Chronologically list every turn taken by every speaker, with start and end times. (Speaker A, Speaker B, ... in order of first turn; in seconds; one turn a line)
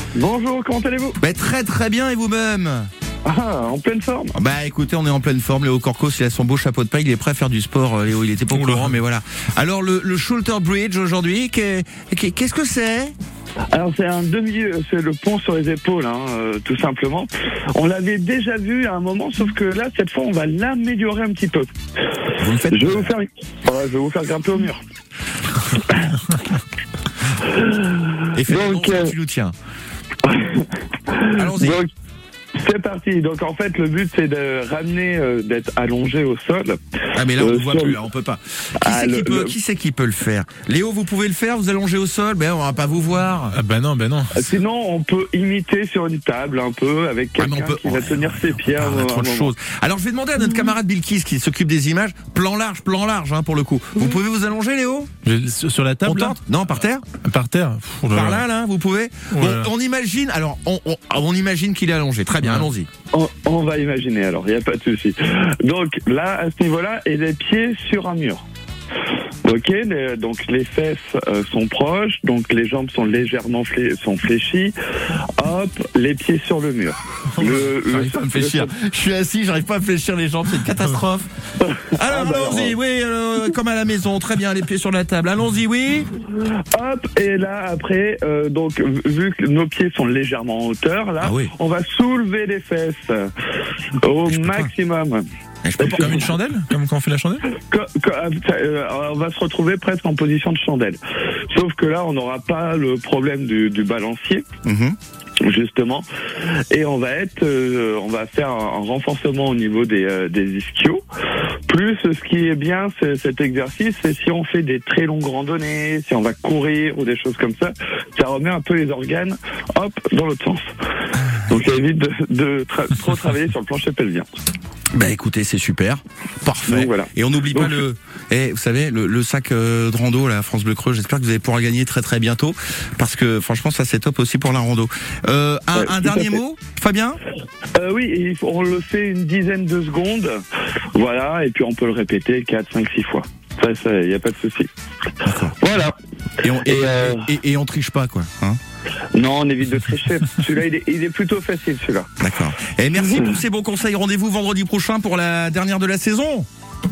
Speaker A: 0.1-1.2
Speaker B: 1.2-2.9
Speaker A: 3.2-4.3
Speaker B: 4.3-13.1
Speaker C: 8.5-8.9
Speaker A: 13.7-24.8
Speaker B: 22.4-23.1
Speaker A: 25.8-26.2
Speaker A: 27.4-29.1
Speaker B: 28.3-29.5
Speaker A: 30.2-31.9
Speaker B: 31.4-31.8
Speaker A: 32.5-38.0
Speaker B: 37.1-43.6
Speaker A: 38.8-39.5
Speaker C: 43.5-44.3
Speaker A: 44.3-49.5
Speaker B: 47.4-55.1
Speaker C: 55.2-56.3
Speaker B: 56.0-57.1
Speaker C: 57.1-58.4
Speaker B: 58.1-62.9
Speaker C: 59.3-59.7
Speaker A: 63.1-68.4
Speaker A: 69.4-78.7
Speaker C: 77.3-77.9
Speaker B: 77.4-81.3
Speaker A: 81.6-82.8
Speaker B: 82.0-86.1
Speaker A: 86.6-95.2
Speaker B: 91.2-91.5
Speaker B: 94.3-94.7
Speaker B: 95.6-96.3
Speaker A: 95.8-96.3
Speaker C: 96.0-97.4
Speaker A: 97.5-104.4
Speaker B: 104.6-105.0
Speaker A: 105.4-111.0
Speaker A: 111.7-120.7
Speaker A: 121.5-124.3
Speaker B: 124.9-137.2
Speaker A: 126.7-127.8
Speaker A: 135.7-136.4
Speaker A: 137.8-140.4
Speaker A: 140.9-144.7
Speaker B: 145.2-145.6
Speaker A: 145.6-147.3
Speaker B: 146.4-148.6
Speaker A: 149.1-152.1
Speaker B: 152.2-156.5
Speaker A: 153.0-153.3